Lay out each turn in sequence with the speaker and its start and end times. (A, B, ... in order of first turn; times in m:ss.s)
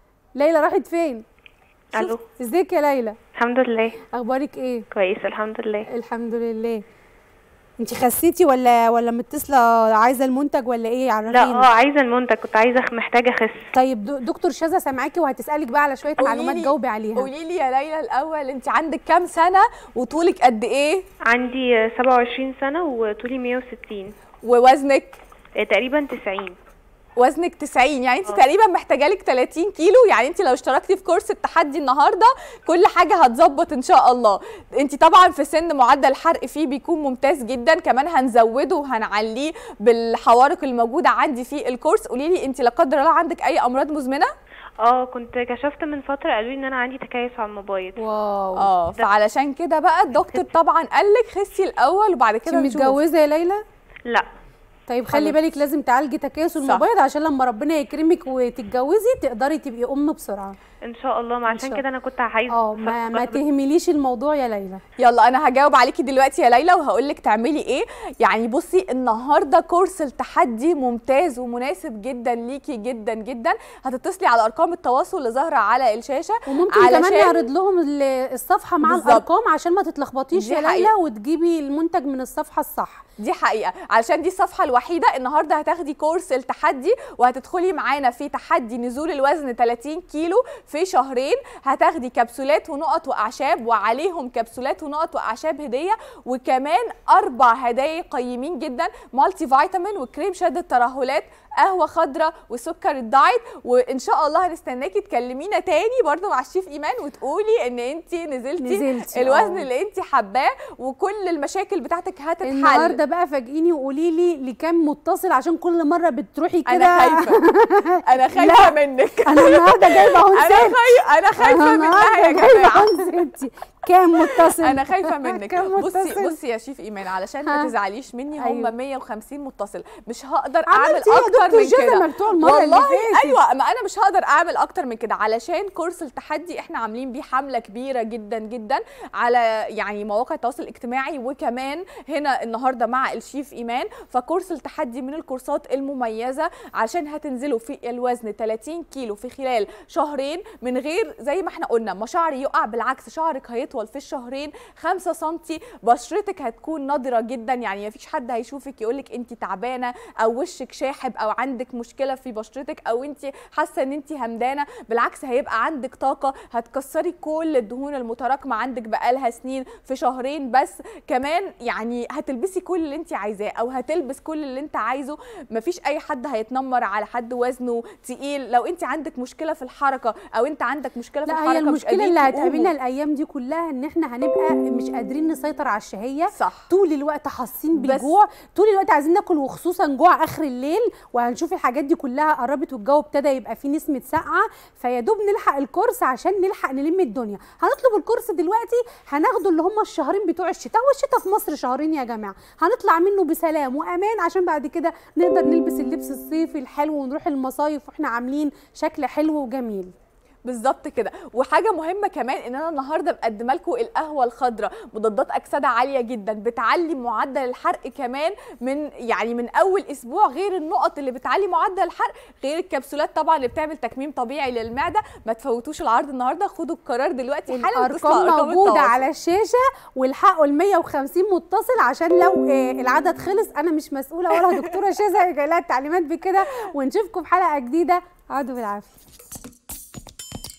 0:00.4-0:01.2 A
0:01.9-0:02.2 B
0:02.0-0:03.2 A
0:03.3-0:04.0 B
0:04.1-0:04.8 A
0:04.9-0:05.9 B
0:05.9-0:06.8 A
0:07.8-0:11.7 A
0:11.3-0:13.6 B
0:13.7-0:17.3 A
0:16.2-0:21.0 C
0:21.3-0:24.1 B
0:24.4-0:25.2 C
0:25.6-0:26.6 B
0:27.2-0:44.3 C
0:44.8-0:48.0 B
0:48.0-0:48.7 A
0:48.6-0:53.0 C
0:52.4-0:53.6 A
0:54.9-1:00.5 A
1:00.9-1:03.4 B
1:01.5-1:01.8 A
1:02.5-1:04.8 A
1:05.0-1:17.5 C
1:16.5-1:23.0 A
1:18.8-1:19.2 C
1:20.3-1:20.9 C
1:23.2-1:53.0 C
1:48.6-1:49.6 A
1:52.4-1:58.7 A
1:56.7-1:57.4 C
1:58.0-2:03.0 C
1:59.2-2:06.4 A
2:04.2-3:02.7 C
2:08.4-2:08.7 A
2:10.7-2:13.4 A
3:01.3-3:29.9 A
3:06.3-3:06.7 C
3:07.7-3:08.1 C
3:30.4-3:49.0 C
3:47.5-3:59.0 A
3:54.4-3:54.7 C